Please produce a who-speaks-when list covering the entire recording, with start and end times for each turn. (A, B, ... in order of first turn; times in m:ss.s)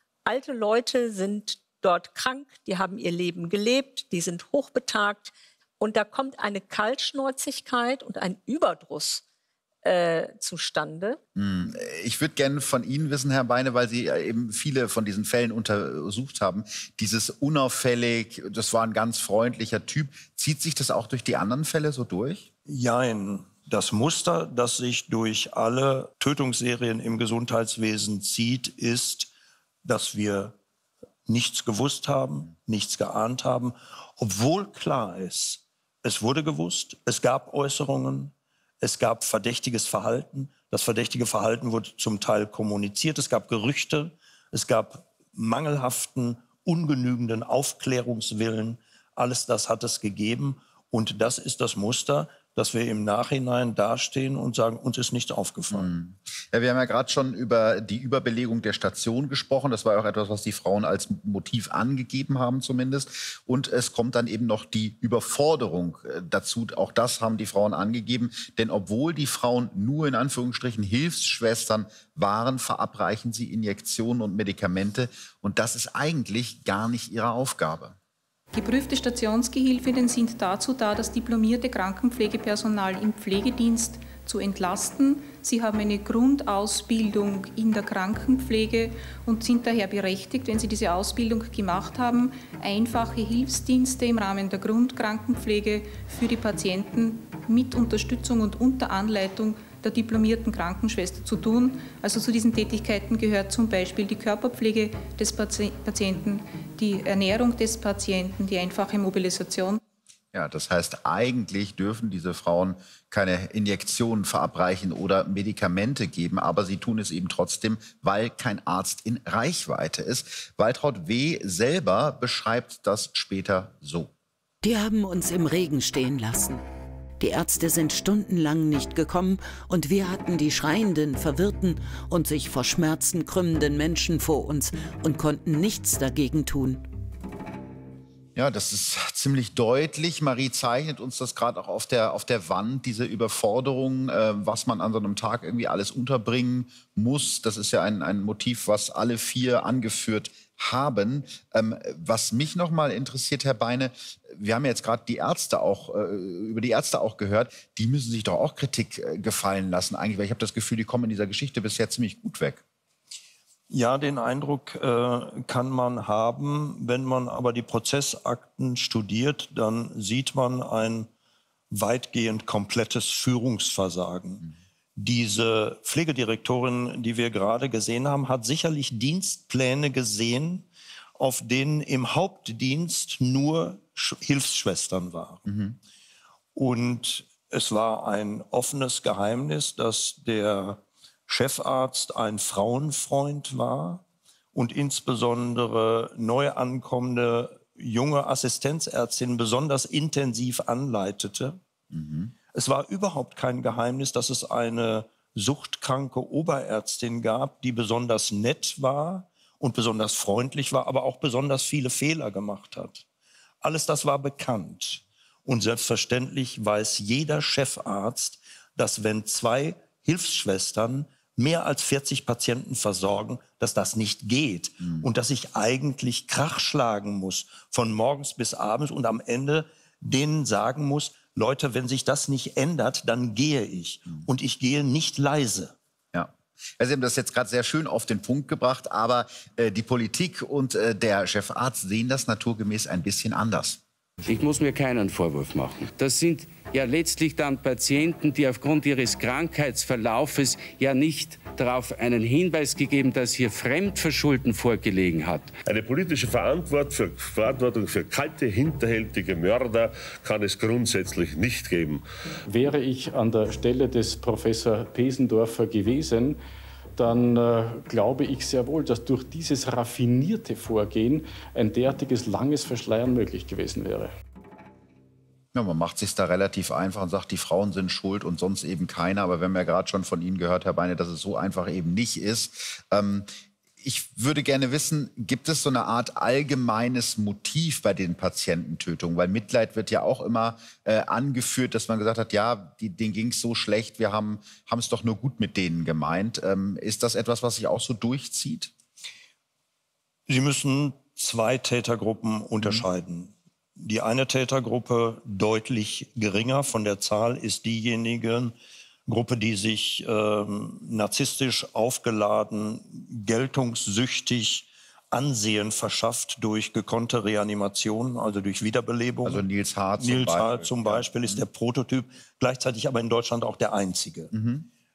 0:00.2-0:09.2 A
0:09.8-0:11.2 A
0:11.4-0:22.5 B
0:22.7-0:29.3 C
0:29.8-0:30.6 C
0:31.3-0:55.9 C
0:55.7-1:18.0 B
1:18.5-1:49.8 D
1:50.3-2:04.1 B
2:04.6-2:06.6 E
2:07.2-2:16.8 E
2:18.3-2:42.6 B
2:43.7-2:51.1 C
2:51.7-2:54.4 C
2:55.0-3:00.6 C
3:01.2-3:05.4 C
3:05.5-3:05.8 B
3:06.5-3:14.0 C
3:14.5-3:21.6 C
3:21.9-3:22.3 B
3:22.5-3:33.0 C
3:33.6-3:55.7 C
3:56.1-4:03.8 B
4:04.2-4:15.5 F
4:15.6-4:22.0 G
4:22.5-4:26.4 H
4:27.0-4:34.1 H
4:35.5-4:43.3 B
4:43.8-4:58.7 B
5:00.3-5:08.5 C
5:09.1-5:19.4 C
5:19.2-5:21.4 B
5:20.0-5:24.3 C
5:24.3-5:24.7 B